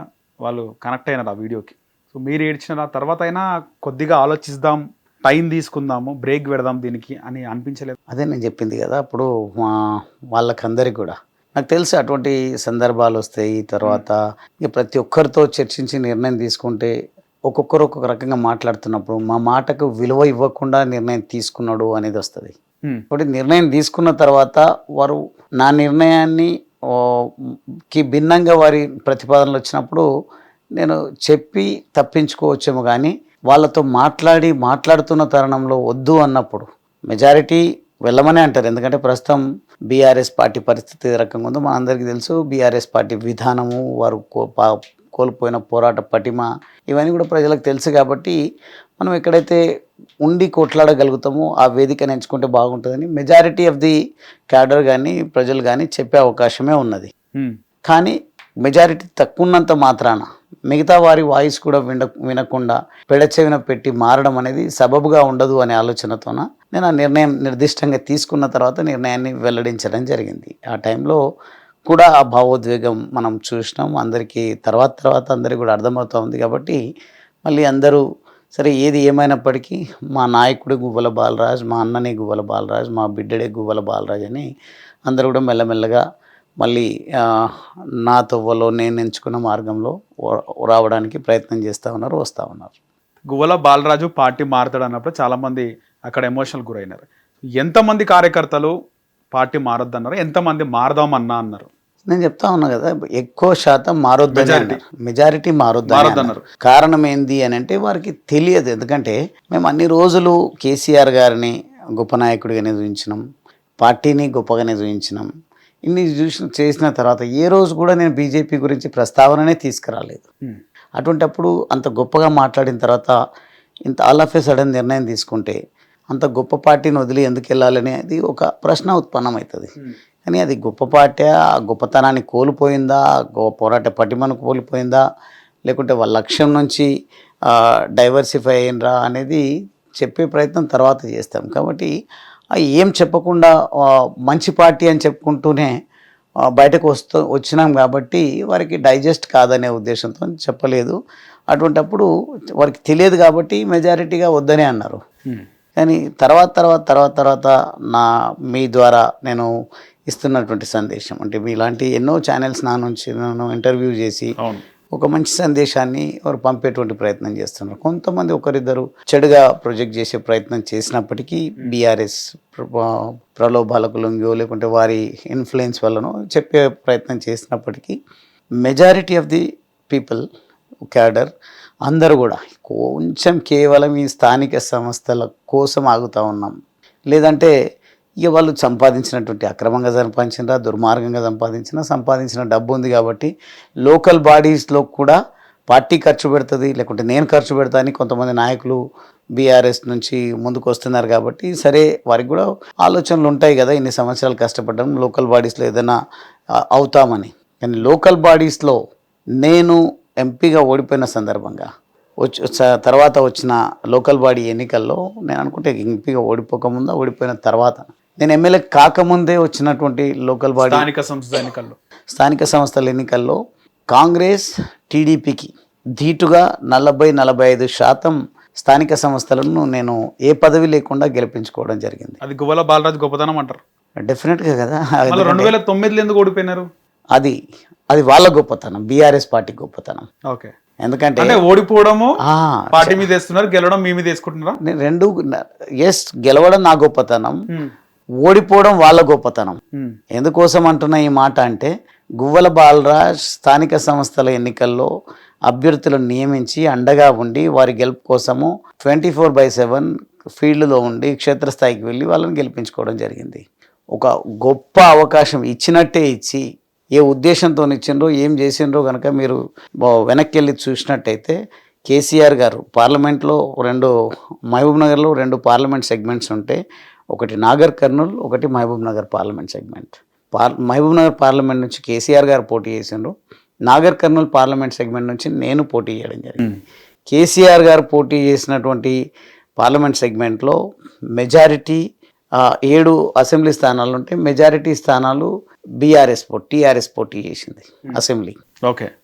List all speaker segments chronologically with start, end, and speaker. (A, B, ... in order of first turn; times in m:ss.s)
0:00.4-0:07.9 A
0:08.1-0:09.8 B
0:10.3-0:16.9 B
0:17.5-0:22.5 B
0:23.1-0:27.2 B
0:27.9-0:30.0 B
0:30.8-0:48.4 B
0:49.0-0:49.6 B
0:50.2-0:54.0 B
0:54.5-0:57.1 B
0:57.8-1:11.2 B
1:11.9-1:16.8 B
1:17.4-1:18.0 B
1:18.6-1:24.4 B
1:25.1-1:26.0 B
1:26.6-1:27.5 B
1:28.0-1:32.7 B
1:33.3-1:37.0 A
1:37.6-1:38.7 A
1:39.3-1:41.7 A
1:42.1-1:53.2 B
1:44.3-1:44.8 A
1:45.9-1:46.4 A
1:53.8-1:55.3 B
1:55.8-2:00.2 B
2:01.0-2:03.1 B
2:03.8-2:05.6 B
2:06.1-2:09.7 B
2:10.2-2:15.0 B
2:15.7-2:16.9 B
2:17.5-2:19.4 B
2:20.0-2:21.9 B
2:22.6-2:25.7 B
2:26.5-2:31.0 B
2:31.5-2:32.1 B
2:32.6-2:35.0 B
2:35.8-2:39.5 B
2:40.1-2:44.3 B
2:44.9-2:58.0 B
2:58.6-3:00.2 B
3:00.9-3:01.3 B
3:01.8-3:06.5 B
3:07.1-3:07.5 B
3:08.2-3:13.3 B
3:13.8-3:15.2 B
3:15.7-3:18.8 B
3:19.4-3:26.0 B
3:26.7-3:28.8 B
3:29.4-3:31.7 B
3:32.2-3:40.9 B
3:40.6-3:41.8 A
3:42.1-3:43.4 B
3:43.9-3:52.2 B
3:52.2-3:53.6 A
3:54.0-3:55.5 B
3:55.1-3:56.6 A
3:57.9-4:00.0 B
4:00.8-4:01.4 B
4:01.2-4:02.2 A
4:02.2-4:03.0 B
4:02.7-4:04.6 A
4:04.6-4:07.4 B
4:08.2-4:09.6 B
4:10.1-4:14.9 B
4:15.5-4:23.4 B
4:23.9-4:26.4 B
4:27.0-4:31.4 B
4:31.9-4:33.9 B
4:34.5-4:36.6 B
4:37.1-4:43.1 B
4:43.7-4:46.4 B
4:47.1-4:49.0 B
4:49.6-4:50.6 B
4:51.2-4:51.8 B
4:52.4-4:55.3 B
4:55.8-4:58.4 B
4:58.6-4:58.9 A